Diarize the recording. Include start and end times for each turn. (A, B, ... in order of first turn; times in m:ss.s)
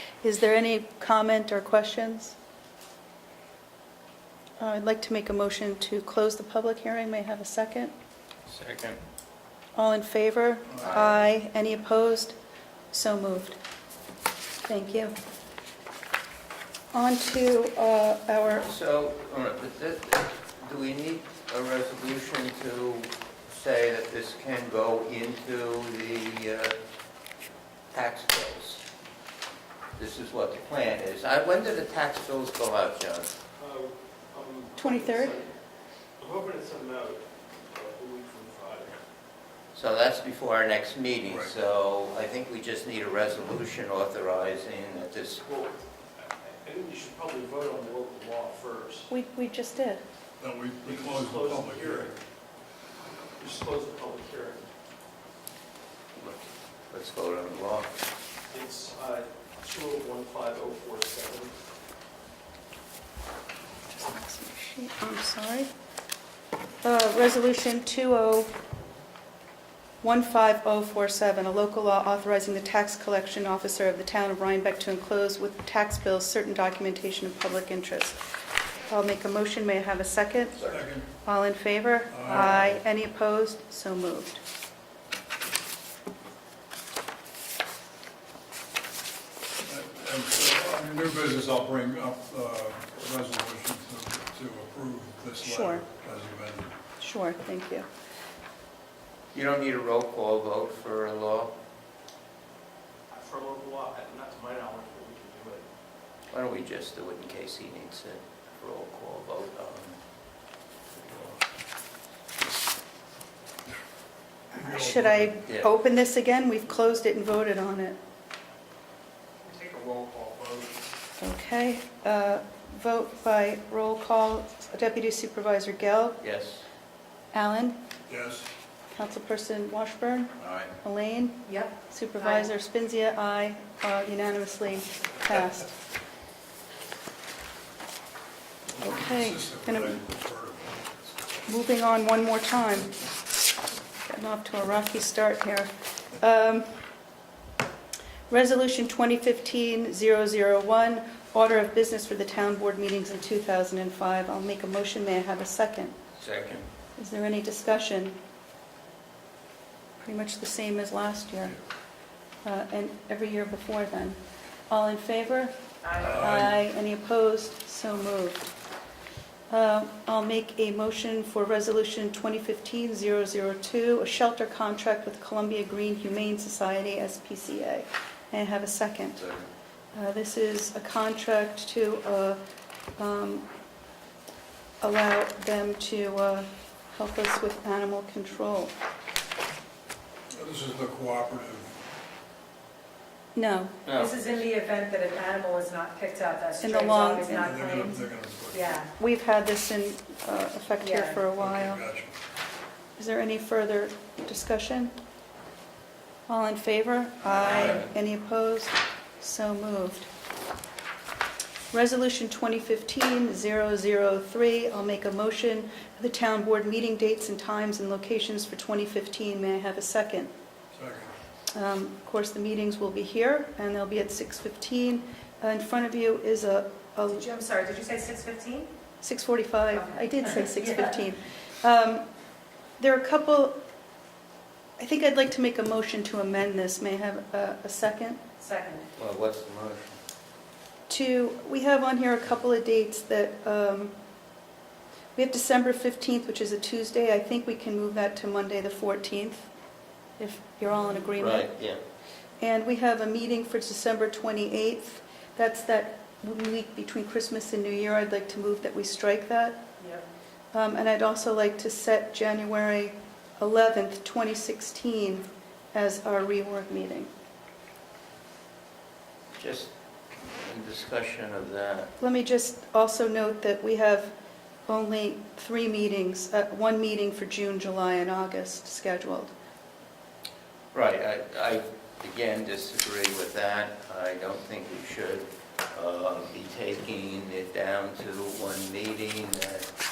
0:00.2-0:02.4 A
0:04.6-0:07.9 A
0:08.5-0:09.0 B
0:09.8-0:12.4 A
0:10.7-0:11.0 C
0:10.8-0:11.1 B
0:12.9-0:13.6 A
0:14.7-0:15.1 A
0:16.9-0:18.7 A
0:18.5-0:26.8 B
0:27.9-0:28.8 B
0:30.0-0:33.3 B
0:33.6-0:35.6 D
0:34.8-0:35.4 A
0:36.2-0:39.0 D
0:39.7-0:45.4 B
0:45.4-0:49.1 D
0:49.1-0:50.0 A
0:50.4-0:52.2 C
0:50.8-0:52.2 D
0:53.4-0:54.7 D
0:56.2-0:58.0 B
0:58.5-1:01.6 D
1:03.9-1:05.7 A
1:06.8-1:08.5 A
1:10.0-1:18.2 A
1:18.9-1:20.6 A
1:20.6-1:21.1 C
1:21.2-1:24.4 A
1:22.1-1:22.8 C
1:29.7-1:36.8 C
1:35.4-1:35.8 A
1:37.0-1:37.9 A
1:39.3-1:41.5 B
1:43.1-1:45.7 D
1:46.3-1:50.0 B
1:50.9-1:51.4 B
1:54.5-1:55.4 C
1:54.5-1:58.0 A
1:59.4-2:00.7 D
2:01.2-2:06.2 A
2:06.2-2:06.6 B
2:07.3-2:07.8 A
2:08.1-2:08.5 C
2:08.9-2:15.7 A
2:10.4-2:10.7 B
2:11.5-2:12.5 E
2:18.7-2:21.0 C
2:18.8-2:20.0 A
2:21.5-2:22.9 A
2:24.1-2:26.8 A
2:28.3-2:36.0 A
2:36.2-2:36.7 B
2:37.0-2:38.2 A
2:40.0-2:41.6 A
2:42.4-2:48.5 A
2:45.8-2:46.2 E
2:46.0-2:46.6 C
2:49.5-2:59.2 A
2:59.2-2:59.5 B
2:59.9-3:02.4 A
3:03.0-3:03.5 A
3:04.8-3:08.7 A
3:10.3-3:11.8 C
3:13.4-3:13.8 A
3:13.9-3:14.2 B
3:13.9-3:18.9 E
3:16.6-3:17.9 A
3:17.4-3:18.8 C
3:19.0-3:21.8 A
3:20.8-3:21.2 E
3:21.4-3:22.2 C
3:23.0-3:24.9 A
3:26.3-3:30.1 A
3:27.2-3:27.9 B
3:31.7-3:40.3 A
3:40.7-3:41.1 C
3:41.5-3:47.3 A
3:47.1-3:48.7 E
3:49.0-3:52.1 A
3:49.7-3:50.9 E
3:52.8-3:53.6 A
3:54.8-3:58.2 A
3:58.4-3:58.9 E
3:59.0-4:00.0 B
4:00.9-4:04.0 A
4:05.2-4:09.5 A
4:10.2-4:11.5 A
4:11.2-4:11.8 B
4:12.4-4:19.6 A
4:19.8-4:20.0 E
4:20.5-4:27.1 A
4:29.4-4:31.9 B
4:32.0-4:34.1 A
4:34.7-4:39.3 A
4:40.7-4:49.7 B